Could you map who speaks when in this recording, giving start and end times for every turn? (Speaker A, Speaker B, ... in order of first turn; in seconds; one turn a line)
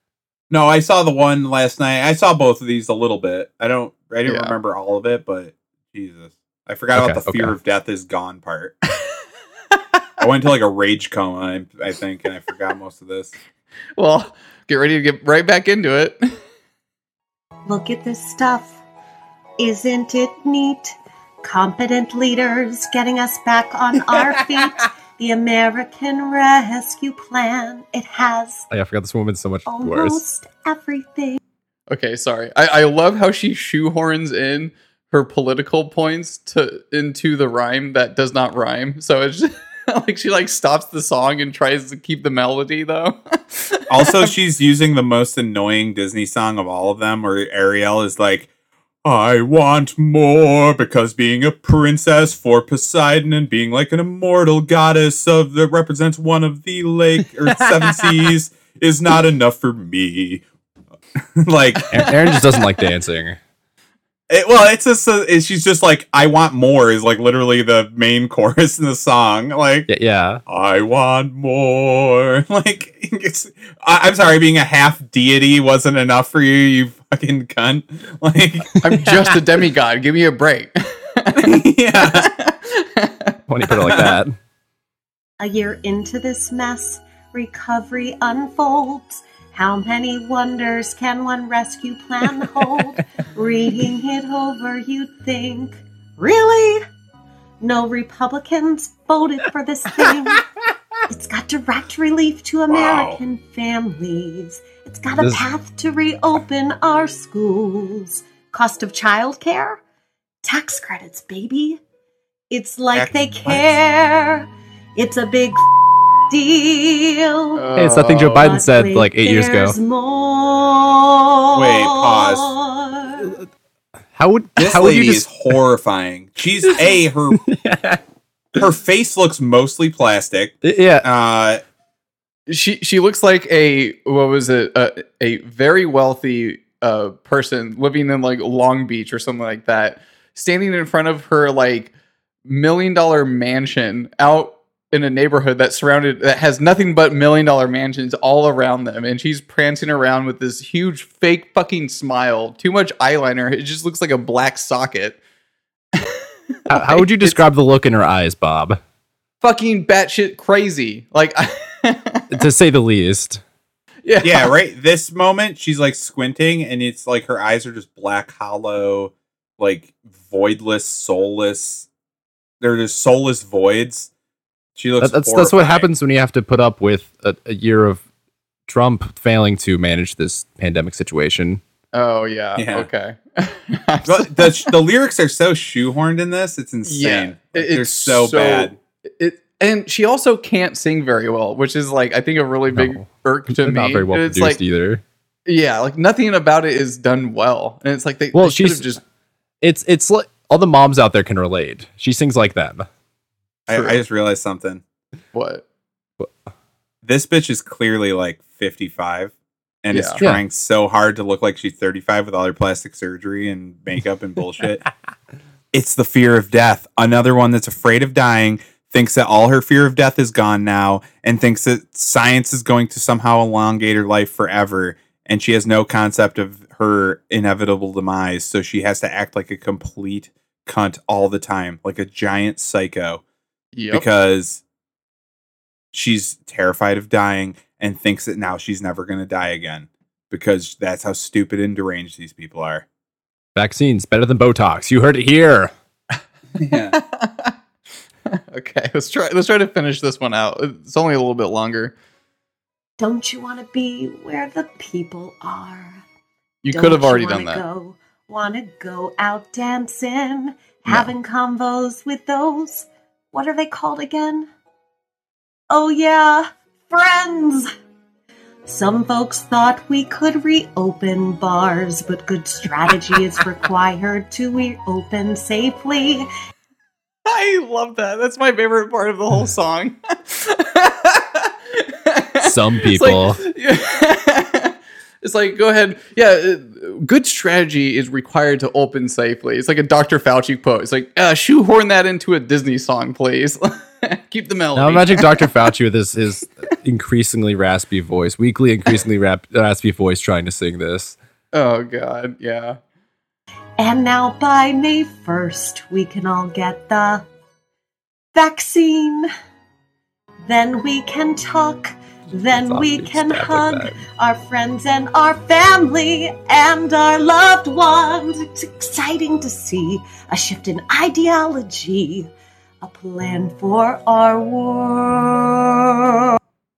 Speaker A: 0.5-8.8
Speaker B: 4.3-4.5
Speaker C: 7.0-7.5
Speaker A: 10.2-13.3
Speaker B: 14.0-16.2
Speaker D: 17.7-18.8
Speaker D: 19.6-28.7
Speaker C: 28.7-30.2
Speaker D: 29.6-31.4
Speaker B: 31.9-44.3
Speaker A: 43.9-48.5
Speaker A: 49.0-60.4
Speaker A: 61.4-62.1
Speaker C: 61.9-63.4
Speaker A: 64.3-69.9
Speaker C: 69.9-70.4
Speaker A: 70.5-78.8
Speaker B: 78.8-83.4
Speaker A: 81.4-82.3
Speaker C: 83.5-84.3
Speaker A: 83.9-84.1
Speaker D: 85.4-96.8
Speaker D: 97.6-100.4
Speaker D: 101.1-109.8
Speaker A: 102.7-103.2
Speaker C: 105.1-105.4
Speaker D: 110.4-111.8
Speaker D: 112.5-115.6
Speaker A: 112.9-113.8
Speaker D: 116.3-117.7
Speaker B: 117.6-118.5
Speaker C: 117.8-119.8
Speaker D: 118.2-123.3
Speaker A: 121.5-122.5
Speaker C: 124.2-125.2
Speaker A: 124.6-127.4
Speaker C: 127.5-128.0
Speaker A: 128.6-131.6
Speaker C: 130.6-131.1
Speaker B: 132.5-141.9
Speaker B: 142.4-155.2
Speaker C: 156.7-158.8
Speaker B: 156.7-157.4
Speaker B: 159.4-162.3
Speaker C: 162.3-163.4
Speaker B: 164.0-164.5
Speaker A: 164.2-171.9
Speaker A: 172.6-174.1
Speaker A: 174.8-175.9
Speaker C: 175.0-178.0
Speaker C: 178.7-181.6
Speaker B: 181.9-184.5
Speaker A: 182.6-182.9
Speaker A: 184.0-188.7
Speaker B: 186.8-194.6
Speaker C: 192.7-195.0
Speaker B: 195.4-199.0
Speaker C: 198.3-199.0
Speaker C: 199.6-202.9
Speaker A: 203.7-204.8
Speaker B: 203.7-204.0
Speaker B: 205.3-205.6
Speaker A: 207.0-209.3
Speaker A: 209.8-214.9
Speaker B: 209.9-210.2
Speaker A: 215.7-233.2
Speaker B: 233.7-234.0
Speaker A: 233.9-234.6
Speaker A: 235.9-242.8
Speaker C: 243.5-245.7
Speaker A: 246.6-247.0
Speaker B: 246.9-247.5
Speaker B: 248.3-251.9
Speaker D: 253.0-256.0
Speaker B: 256.6-257.6
Speaker D: 256.7-264.5
Speaker D: 265.7-267.7
Speaker D: 268.7-276.3
Speaker B: 277.3-295.5
Speaker C: 282.4-283.4
Speaker C: 294.8-301.2
Speaker B: 301.5-302.8
Speaker D: 303.8-307.2
Speaker D: 308.3-309.3
Speaker D: 310.4-322.3
Speaker C: 312.5-314.0
Speaker D: 322.8-326.0